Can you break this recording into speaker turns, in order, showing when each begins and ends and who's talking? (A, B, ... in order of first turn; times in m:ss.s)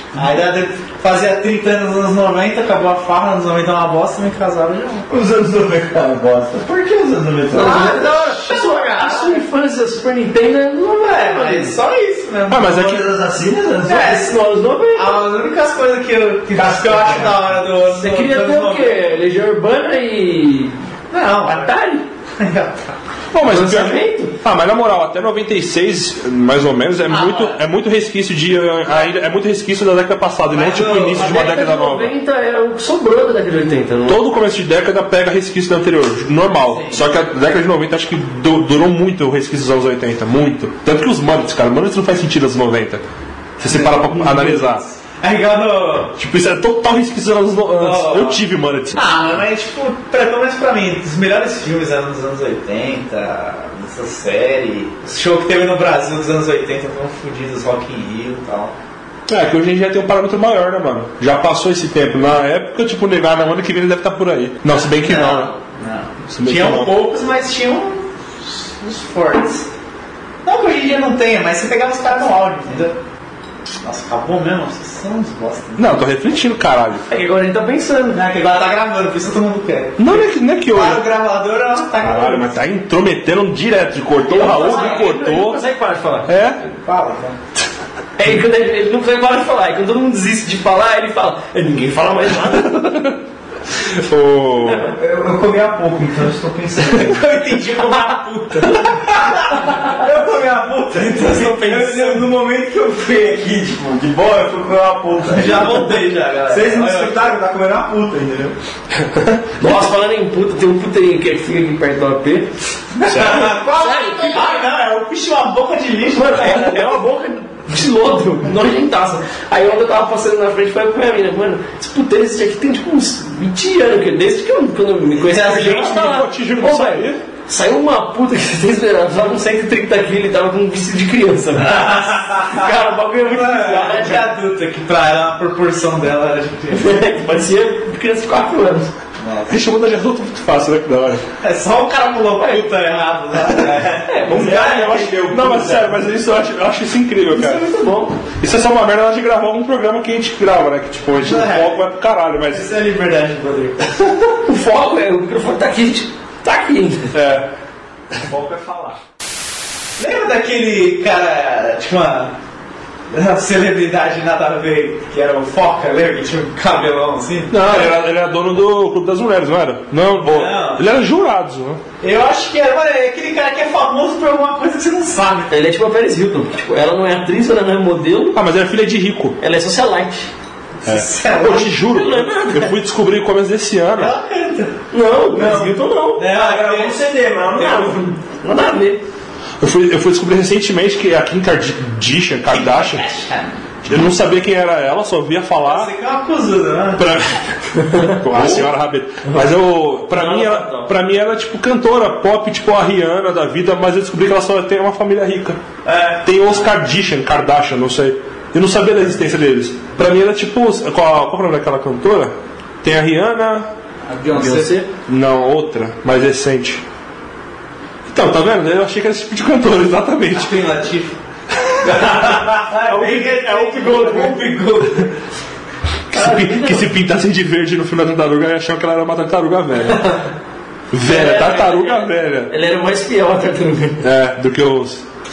0:00.1-0:05.1 A
0:05.1-0:08.0 B
0:07.5-0:11.7 C
0:07.5-0:09.4 A
0:11.0-0:13.0 A
0:12.5-0:13.0 D
0:12.8-0:14.2 B
0:13.8-0:14.3 A
0:13.8-0:15.2 C
0:14.9-0:19.0 A
0:16.5-0:17.4 B
0:17.8-0:20.7 C
0:21.1-0:21.7 A
0:21.5-0:22.0 C
0:22.4-0:23.0 A
0:23.3-0:32.1 D
0:23.4-0:24.3 C
0:27.1-0:27.6 A
0:30.5-0:31.3 A
0:30.7-0:34.2 C
0:34.1-0:43.0 D
0:36.7-0:37.1 A
0:43.6-0:44.8 D
0:43.6-0:46.1 A
0:46.2-0:49.0 D
0:47.8-0:48.4 A
0:48.9-0:58.7 A
0:59.3-1:05.5 D
1:04.9-1:09.7 A
1:06.3-1:06.9 D
1:10.4-1:13.0 A
1:13.8-1:16.0 A
1:15.8-1:17.0 D
1:17.1-1:18.2 C
1:18.1-1:22.5 A
1:20.0-1:21.0 D
1:22.0-1:25.6 D
1:24.2-1:26.3 C
1:24.3-1:25.0 A
1:26.3-1:26.6 D
1:26.7-1:27.4 A
1:28.2-1:33.2 C
1:32.5-1:33.1 D
1:33.8-1:34.9 D
1:34.9-1:37.3 B
1:36.9-1:39.7 A
1:39.6-1:48.5 B
1:40.9-1:42.3 A
1:45.2-1:47.3 A
1:49.6-1:52.6 C
1:53.0-1:57.0 A
1:53.0-1:53.6 D
1:53.3-1:53.6 B
1:53.6-1:54.6 C
1:56.1-2:14.3 C
2:05.1-2:05.9 A
2:05.6-2:07.2 D
2:11.6-2:17.0 A
2:16.7-2:18.9 C
2:19.2-2:19.5 A
2:19.5-2:21.2 D
2:21.4-2:23.9 A
2:22.4-2:22.6 C
2:23.5-2:26.1 B
2:24.0-2:25.3 C
2:24.3-2:27.7 D
2:27.3-2:28.2 C
2:28.4-2:32.7 D
2:31.2-2:31.8 A
2:32.5-2:33.9 A
2:34.4-2:37.1 C
2:37.1-2:37.5 D
2:38.2-2:39.0 B
2:40.0-2:42.4 A
2:43.1-2:47.9 A
2:47.5-2:51.8 D
2:50.2-2:50.8 A
2:52.0-2:55.5 A
2:55.5-2:58.4 C
2:58.3-2:59.4 D
2:59.4-3:00.3 C
3:00.8-3:01.8 A
3:00.8-3:04.1 D
3:01.4-3:02.7 C
3:03.9-3:04.8 A
3:04.9-3:06.3 C
3:05.3-3:08.0 B
3:06.2-3:07.1 A
3:07.5-3:09.0 C
3:09.6-3:13.0 D
3:12.5-3:13.6 A
3:13.8-3:15.9 D
3:15.6-3:17.2 A
3:17.0-3:25.6 D
3:17.9-3:18.2 C
3:20.1-3:20.9 C
3:25.8-3:26.2 A
3:26.2-3:33.7 D
3:34.1-3:34.8 A
3:34.3-3:34.9 C
3:35.1-3:36.8 D
3:38.0-3:40.6 D
3:40.3-3:41.2 A
3:41.8-3:45.1 A
3:42.8-3:44.4 C
3:46.1-3:50.1 D
3:46.1-3:46.9 C
3:49.9-3:50.2 C
3:50.9-3:52.5 D
3:51.0-3:54.0 C
3:54.0-3:55.0 D